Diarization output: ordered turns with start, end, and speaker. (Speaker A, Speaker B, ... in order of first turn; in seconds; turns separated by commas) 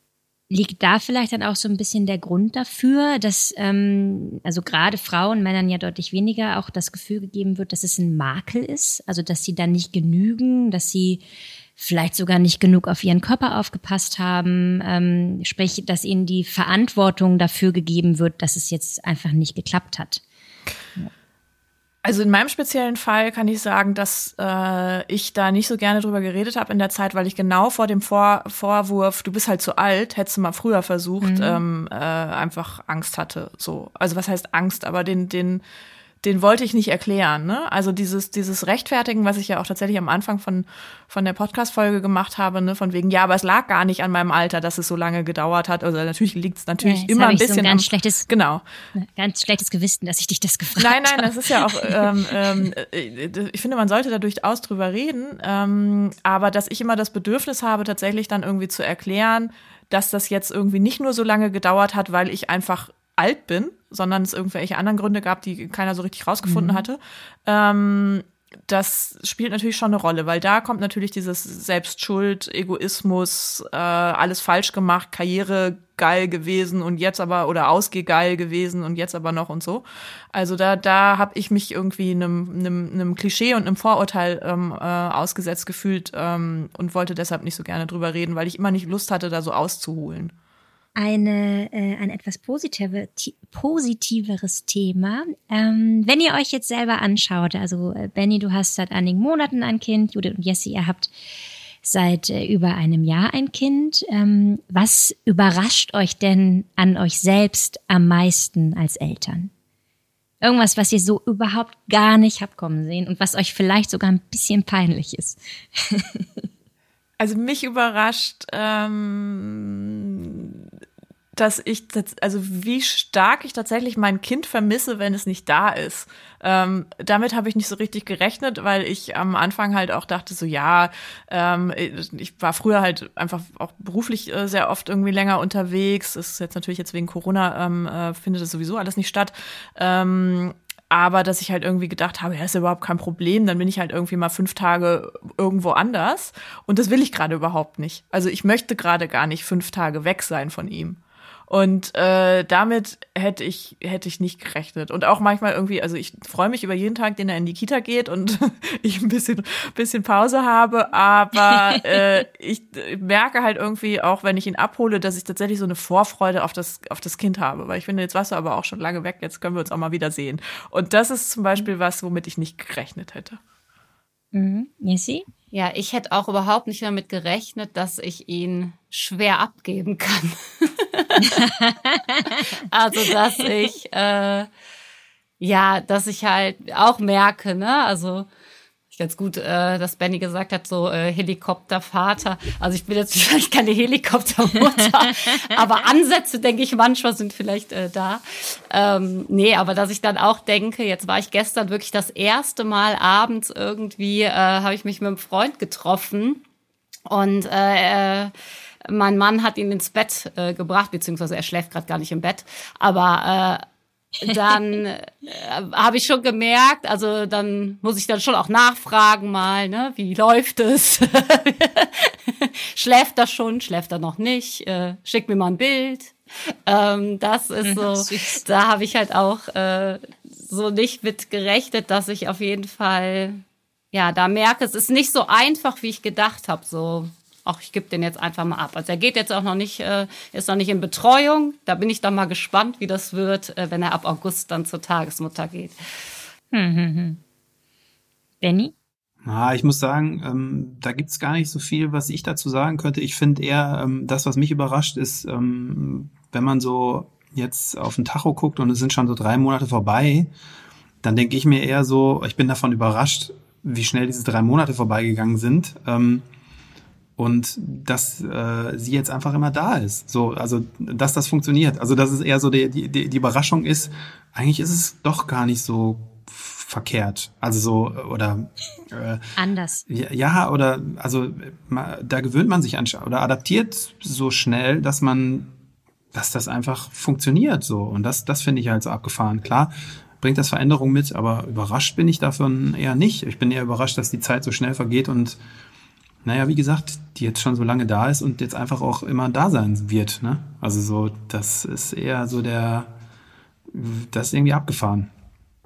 Speaker A: 0.5-11.2, Speaker A: 11.8-20.2, Speaker B: 22.0-35.6, Speaker A: 31.2-31.6, Speaker B: 36.2-48.6, Speaker A: 46.8-48.3, Speaker A: 48.9-52.0, Speaker B: 50.8-90.3, Speaker A: 66.4-66.9, Speaker A: 91.0-101.1, Speaker A: 101.8-109.5, Speaker A: 110.4-116.5, Speaker B: 117.2-120.6, Speaker B: 121.3-173.4, Speaker A: 174.3-175.3, Speaker C: 175.5-181.4, Speaker A: 181.2-182.5, Speaker C: 182.6-184.5, Speaker C: 185.4-188.3, Speaker C: 188.9-206.4, Speaker C: 207.1-208.3, Speaker C: 208.8-213.6, Speaker C: 214.2-226.1, Speaker C: 226.7-245.8, Speaker A: 227.6-228.5, Speaker A: 246.5-247.2, Speaker A: 248.4-248.7, Speaker D: 249.2-260.3, Speaker D: 261.0-266.2, Speaker D: 267.2-279.2, Speaker A: 279.4-279.8, Speaker D: 279.9-285.5, Speaker D: 286.1-295.4, Speaker D: 296.2-302.9, Speaker D: 303.7-305.1